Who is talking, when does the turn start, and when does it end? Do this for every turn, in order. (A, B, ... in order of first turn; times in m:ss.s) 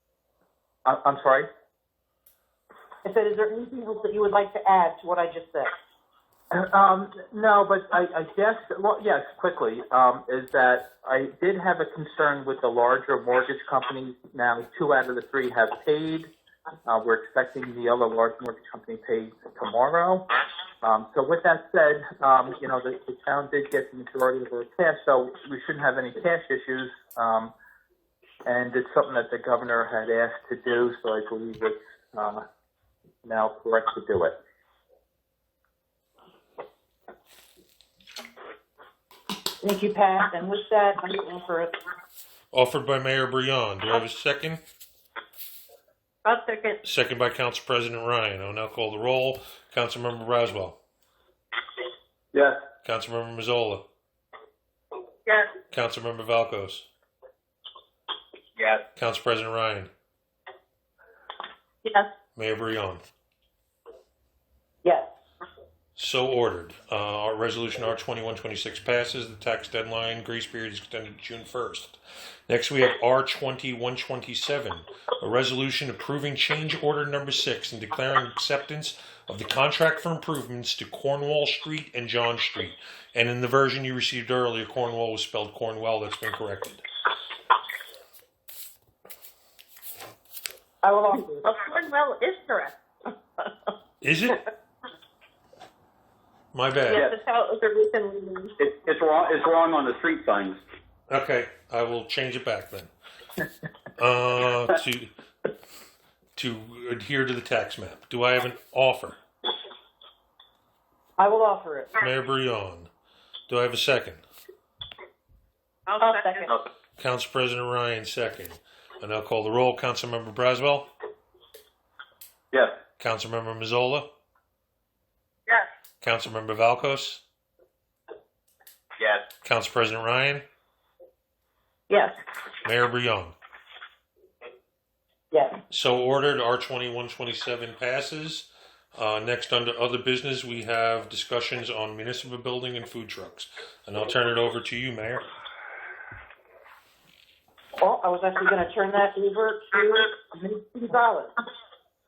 0:00.8-0:01.5 A
0:03.0-0:05.7 B
0:06.5-0:16.3 A
0:16.8-0:20.2 A
0:20.8-0:27.5 A
0:28.4-0:32.4 A
0:33.2-0:34.3 A
0:39.6-0:41.7 B
0:42.5-0:44.6 C
0:46.2-0:46.8 D
0:46.8-0:50.8 C
0:52.3-0:52.6 E
0:52.8-0:53.8 C
0:55.2-0:55.5 D
0:55.7-0:56.8 C
0:59.0-0:59.9 C
1:02.4-1:03.0 C
1:04.8-1:05.1 B
1:06.0-1:12.0 C
1:12.5-1:26.8 C
1:30.8-1:31.5 B
1:31.4-1:32.8 D
1:34.0-1:34.4 C
1:36.5-1:37.1 C
1:36.9-1:38.6 D
1:38.6-1:40.6 E
1:41.1-1:42.9 C
1:44.0-1:45.1 C
1:46.4-1:49.2 C
1:51.2-1:52.0 B
1:52.0-1:52.9 C
1:53.5-1:54.2 C
1:55.9-1:56.5 D
1:56.0-1:56.5 B
1:57.0-2:00.9 C
2:03.0-2:04.1 C
2:06.0-2:07.2 C
2:09.4-2:10.4 C
2:11.9-2:12.1 B
2:12.6-2:13.3 C
2:15.3-2:15.6 B
2:15.7-2:25.2 C
2:27.8-2:31.3 B